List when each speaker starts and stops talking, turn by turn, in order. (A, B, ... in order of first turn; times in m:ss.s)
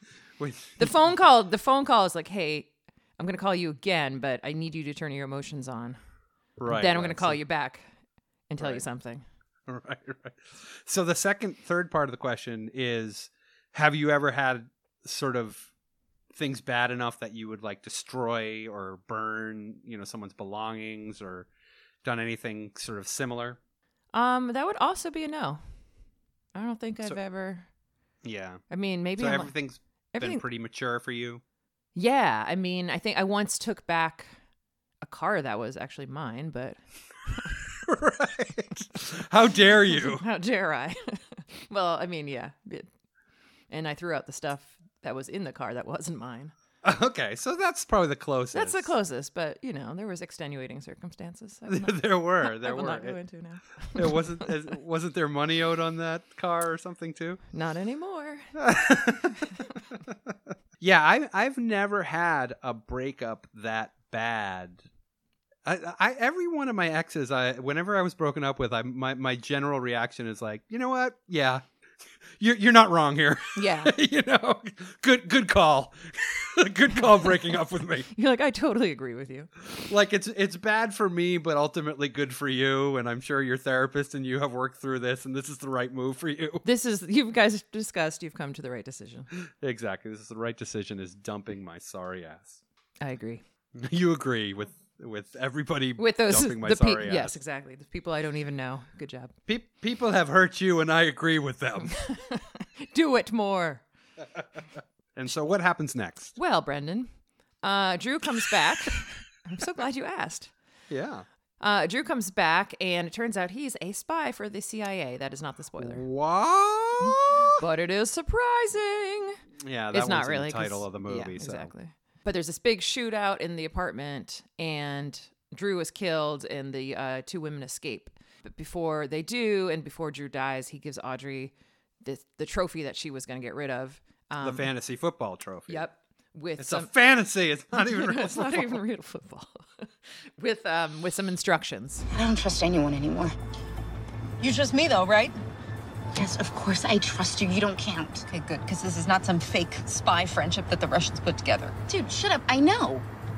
0:00.4-0:01.0 A
0:00.8-0:06.0 B
0:06.6-0:07.4 A
0:06.7-0:07.8 B
0:08.5-0:09.2 B
0:08.6-0:08.8 A
0:09.7-0:15.7 A
0:16.3-0:21.5 A
0:22.0-0:23.6 A
0:24.1-0:25.6 B
0:26.5-0:27.7 B
0:28.2-0:28.6 A
0:28.7-0:29.5 B
0:29.2-0:31.4 A
0:30.1-0:30.4 B
0:31.9-0:34.3 B
0:35.0-0:37.5 B
0:37.8-0:40.2 A
0:39.9-0:42.9 B
0:43.7-0:46.5 B
0:46.8-0:48.9 A
0:48.5-0:54.5 B
0:51.7-0:53.2 A
0:53.9-0:57.4 A
0:57.5-0:58.5 B
0:58.6-0:59.6 A
1:00.8-1:04.8 A
1:05.6-1:11.6 A
1:12.4-1:18.1 A
1:13.6-1:13.9 B
1:18.1-1:19.5 B
1:19.7-1:26.6 A
1:26.6-1:29.3 B
1:29.4-1:32.6 A
1:33.0-1:33.4 B
1:33.8-1:37.4 A
1:36.0-1:39.3 B
1:39.5-1:42.0 A
1:41.9-1:43.8 B
1:45.1-1:46.4 A
1:46.4-1:47.1 B
1:47.6-1:50.5 B
1:50.9-1:51.2 A
1:51.6-1:56.0 B
1:55.8-1:57.6 A
1:57.0-1:59.4 B
1:59.6-2:01.7 A
1:59.9-2:14.7 B
2:14.4-2:15.8 A
2:15.7-2:16.9 B
2:16.6-2:18.8 A
2:17.7-2:22.1 B
2:22.1-2:23.3 C
2:24.4-2:25.4 D
2:26.1-2:28.3 C
2:28.3-2:31.8 D
2:31.9-2:33.1 C